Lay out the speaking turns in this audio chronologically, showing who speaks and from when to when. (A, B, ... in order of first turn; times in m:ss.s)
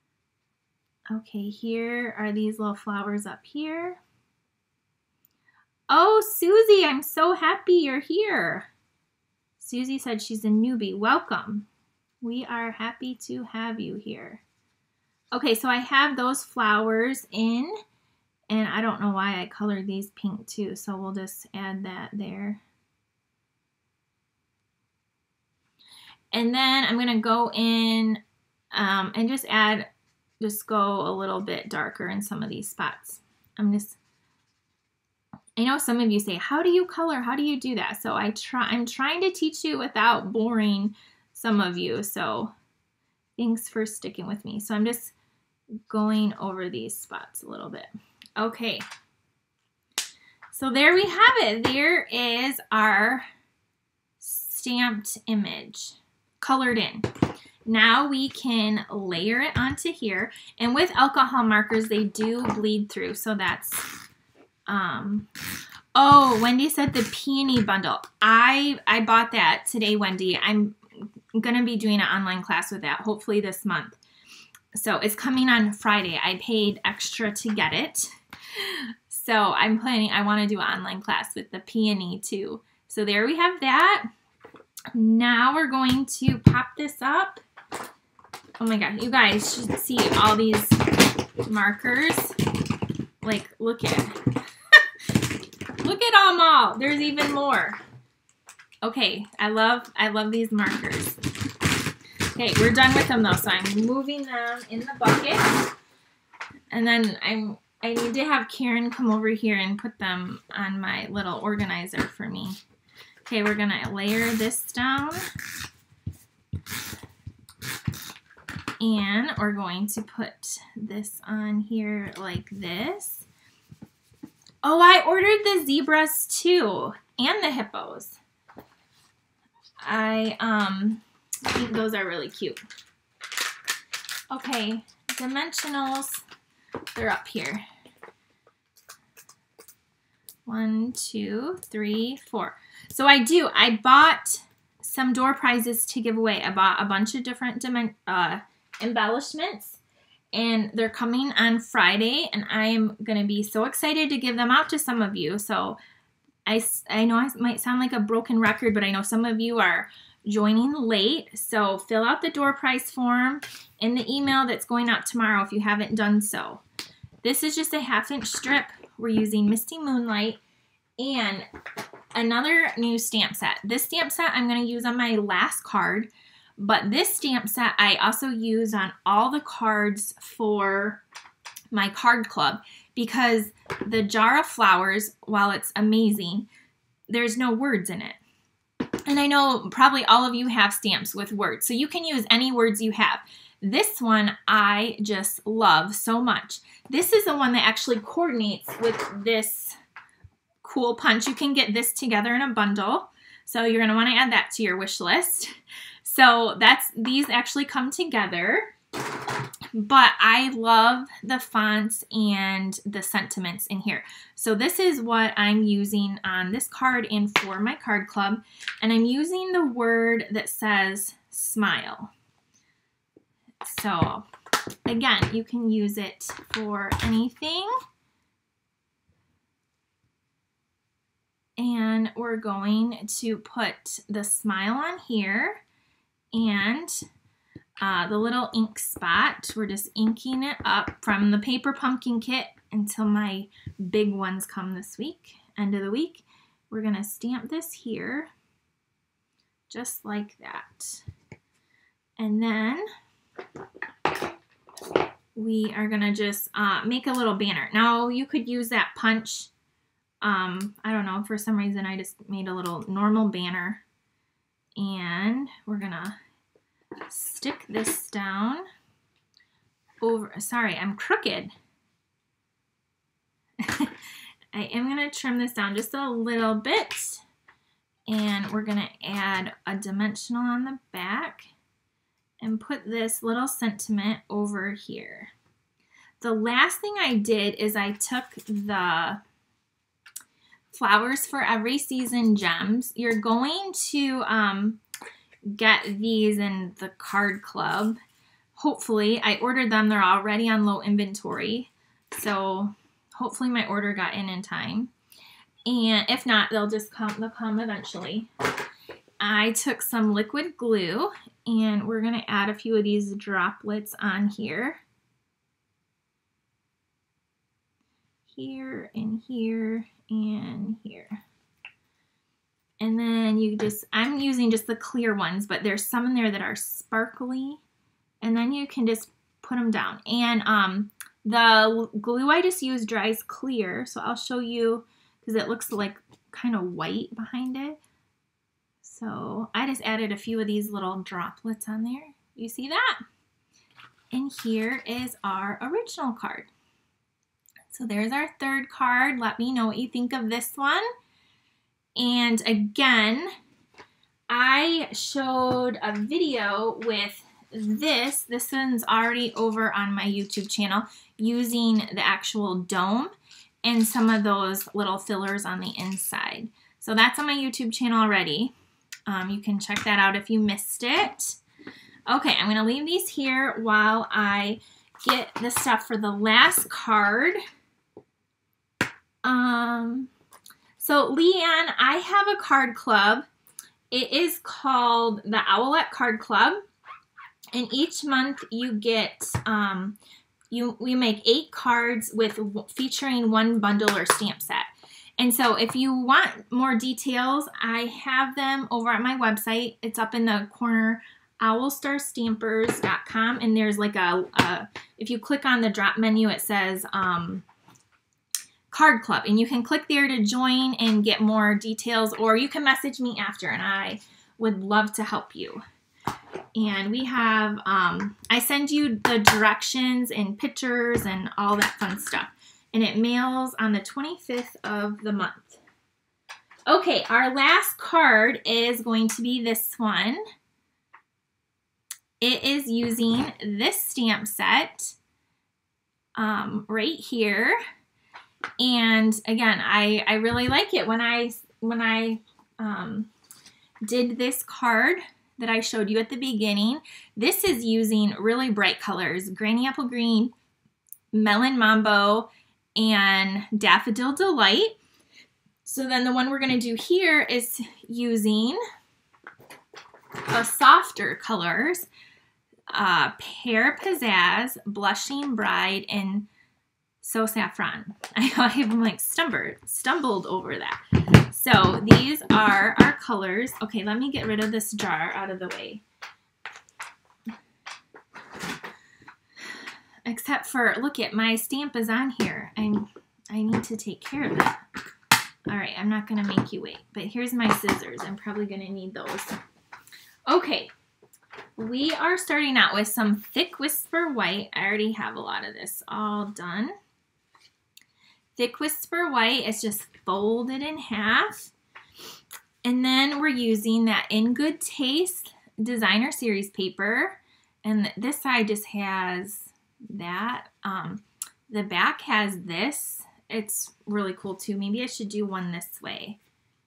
0:01.1-0:04.0 A
0:05.9-0:08.7 A
0:09.6-0:11.7 A
0:12.2-0:14.4 A
0:15.3-0:17.7 A
0:18.5-0:22.6 A
0:26.3-0:28.2 A
0:28.7-0:29.9 A
0:30.4-0:34.0 A
0:35.6-0:42.5 A
0:43.4-0:45.1 A
0:45.9-0:48.8 A
0:50.5-0:53.3 A
0:54.2-0:57.1 A
0:57.7-1:04.0 A
1:04.7-1:05.3 A
1:06.0-1:14.0 A
1:14.7-1:24.1 A
1:24.9-1:27.4 A
1:28.6-1:32.4 A
1:33.2-1:34.2 A
1:35.8-1:37.8 A
1:38.8-1:41.2 A
1:42.3-1:45.7 A
1:46.7-1:52.6 A
1:53.3-1:55.2 A
1:58.8-2:03.3 A
2:04.6-2:08.2 A
2:09.8-2:12.6 A
2:14.3-2:16.2 A
2:17.0-2:17.6 A
2:20.5-2:29.8 A
2:30.3-2:35.8 A
2:36.5-2:46.6 A
2:47.2-2:50.4 A
2:51.0-2:51.5 A
2:52.1-3:01.0 A
3:01.7-3:06.5 A
3:07.1-3:08.2 A
3:09.1-3:19.8 A
3:20.6-3:28.7 A
3:29.7-3:42.1 A
3:43.6-3:44.3 A
3:44.9-3:47.7 A
3:51.6-3:55.6 A
3:56.3-3:57.0 A
3:57.8-4:08.3 A
4:09.7-4:11.0 A
4:12.2-4:12.9 A
4:15.4-4:19.5 A
4:20.2-4:23.8 A
4:24.8-4:26.2 A
4:27.1-4:28.6 A
4:30.0-4:31.5 A
4:33.6-4:34.0 A
4:34.5-4:37.2 A
4:38.1-4:41.5 A
4:42.4-4:45.3 A
4:46.2-4:49.2 A
4:50.7-4:54.8 A
4:55.5-4:58.0 A
4:58.6-5:04.9 A
5:05.7-5:08.3 A
5:09.2-5:14.8 A
5:18.3-5:21.2 A
5:22.8-5:27.6 A
5:28.2-5:37.8 A
5:38.8-5:43.0 A
5:44.1-5:46.5 A
5:47.7-5:50.9 A
5:52.0-5:53.3 A
5:54.3-6:03.1 A
6:03.6-6:08.5 A
6:09.1-6:11.4 A
6:12.1-6:17.4 A
6:19.2-6:20.1 A
6:20.8-6:23.3 A
6:23.9-6:26.6 A
6:27.5-6:30.0 A
6:30.5-6:34.7 A
6:35.2-6:47.4 A
6:48.7-6:55.6 A
6:56.6-7:05.6 A
7:06.7-7:10.2 A
7:12.2-7:15.0 A
7:16.2-7:17.6 A
7:18.6-7:23.1 A
7:23.8-7:30.3 A
7:31.1-7:34.8 A
7:35.6-7:38.6 A
7:40.3-7:41.9 A
7:42.7-7:46.3 A
7:47.0-7:55.8 A
8:00.1-8:04.6 A
8:05.5-8:09.4 A
8:10.3-8:10.7 A
8:11.6-8:16.7 A
8:18.4-8:21.5 A
8:22.6-8:36.2 A